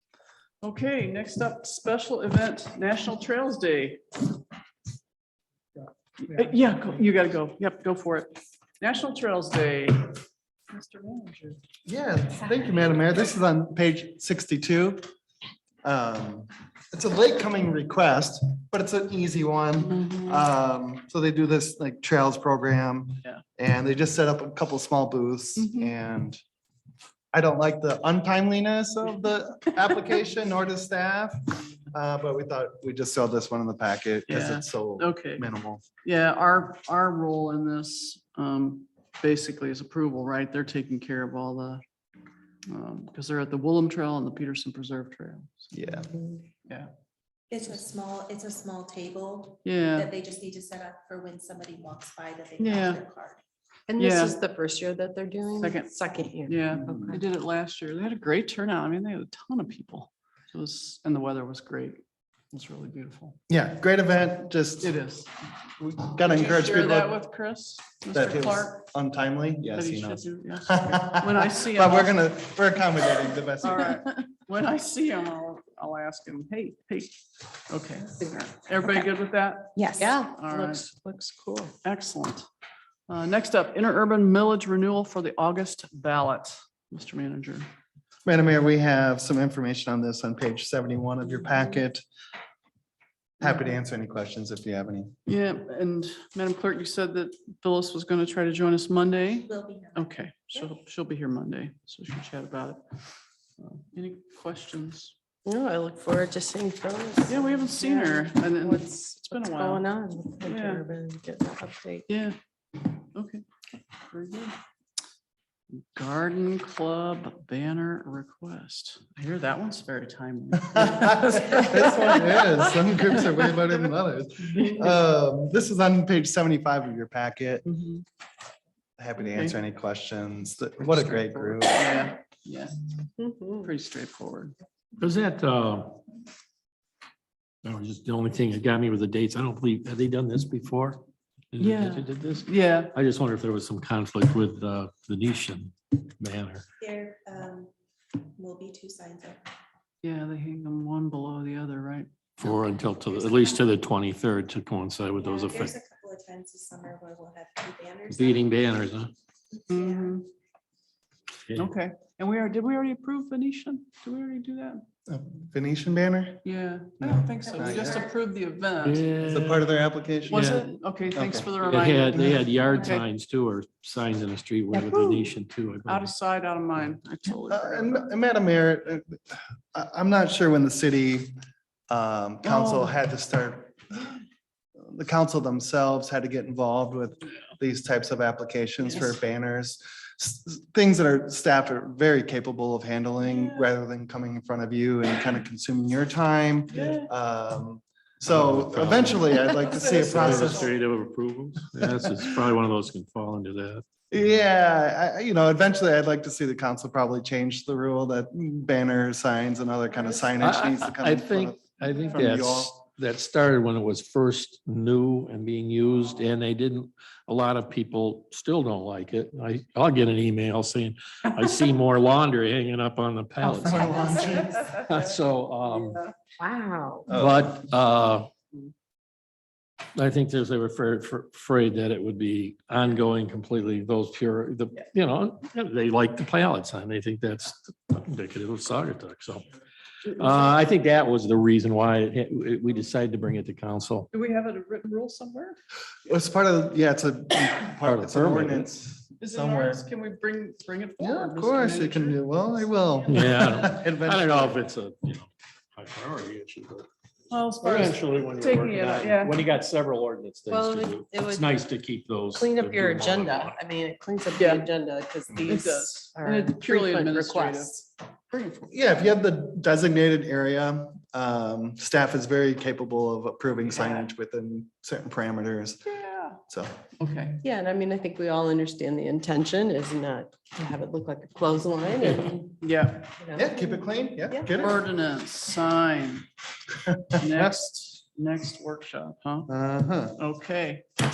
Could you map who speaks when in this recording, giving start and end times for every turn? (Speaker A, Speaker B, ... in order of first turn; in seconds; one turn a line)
Speaker A: 0.6-4.0
Speaker A: 6.2-11.6
Speaker B: 6.3-6.7
Speaker B: 11.9-15.0
Speaker B: 15.8-26.4
Speaker A: 19.9-20.4
Speaker A: 25.6-25.9
Speaker B: 27.3-35.8
Speaker A: 34.3-35.5
Speaker A: 36.0-41.8
Speaker A: 42.7-45.7
Speaker B: 45.7-46.1
Speaker C: 47.5-53.4
Speaker A: 49.6-50.1
Speaker A: 52.6-53.0
Speaker D: 53.9-57.2
Speaker A: 54.0-54.4
Speaker A: 55.6-56.0
Speaker A: 56.5-63.4
Speaker B: 56.8-57.1
Speaker B: 63.5-64.9
Speaker A: 64.8-65.3
Speaker B: 65.8-67.2
Speaker A: 66.2-68.8
Speaker B: 68.1-74.0
Speaker A: 69.8-72.2
Speaker A: 73.6-80.8
Speaker C: 79.8-80.1
Speaker D: 80.0-81.7
Speaker A: 81.8-82.5
Speaker A: 83.1-87.7
Speaker B: 88.2-92.0
Speaker B: 93.4-95.1
Speaker A: 95.2-102.8
Speaker C: 99.4-100.4
Speaker A: 103.6-105.1
Speaker D: 105.4-112.0
Speaker A: 107.3-109.9
Speaker A: 110.4-110.9
Speaker A: 112.1-112.4
Speaker A: 113.1-113.4
Speaker A: 114.0-114.5
Speaker A: 115.7-122.5
Speaker B: 120.6-127.7
Speaker A: 127.7-128.0
Speaker B: 129.0-132.0
Speaker A: 129.2-129.6
Speaker A: 130.9-132.8
Speaker D: 133.2-133.7
Speaker A: 133.6-134.5
Speaker E: 135.0-136.0
Speaker E: 137.6-141.0
Speaker E: 141.5-146.7
Speaker A: 141.6-142.9
Speaker C: 146.8-149.4
Speaker A: 150.0-152.1
Speaker E: 152.4-155.8
Speaker C: 152.8-153.8
Speaker C: 155.2-158.7
Speaker E: 158.1-159.1
Speaker C: 159.5-160.2
Speaker A: 159.7-160.3
Speaker A: 161.5-164.8
Speaker B: 165.1-166.4
Speaker A: 166.4-169.1
Speaker B: 167.0-168.0
Speaker C: 167.5-168.1
Speaker E: 168.8-169.7
Speaker B: 169.2-170.6
Speaker A: 170.3-173.0
Speaker E: 170.3-170.7
Speaker B: 171.1-171.5
Speaker E: 171.6-176.1
Speaker B: 172.1-172.4
Speaker A: 174.7-175.3
Speaker A: 175.8-178.1
Speaker B: 177.5-181.3
Speaker B: 181.9-184.1
Speaker A: 182.4-182.9
Speaker B: 184.8-200.7
Speaker A: 193.2-193.7
Speaker A: 196.7-197.1
Speaker E: 198.2-203.8
Speaker A: 199.7-200.7
Speaker B: 201.8-202.3
Speaker B: 204.1-212.7
Speaker E: 210.4-226.0
Speaker B: 223.4-224.7
Speaker C: 223.7-224.4
Speaker D: 226.4-227.1
Speaker B: 227.1-227.6
Speaker E: 227.1-228.3
Speaker E: 230.0-239.4
Speaker E: 240.1-244.1
Speaker A: 244.1-245.6
Speaker B: 246.1-249.8
Speaker E: 247.8-248.7
Speaker A: 249.2-253.6
Speaker B: 251.0-254.6
Speaker E: 253.1-256.9
Speaker A: 257.3-259.4
Speaker E: 257.6-263.6
Speaker D: 260.5-261.7
Speaker D: 262.3-267.7
Speaker A: 264.4-264.7
Speaker A: 265.5-268.7
Speaker B: 268.7-275.9
Speaker D: 273.8-274.1
Speaker A: 275.9-276.4
Speaker B: 276.5-276.7
Speaker A: 277.0-277.4
Speaker D: 277.4-282.6
Speaker A: 282.6-283.1
Speaker D: 283.2-284.6
Speaker B: 283.3-284.9
Speaker A: 284.6-286.3
Speaker B: 286.8-287.6
Speaker A: 287.2-289.5
Speaker B: 289.5-290.2
Speaker A: 290.2-290.9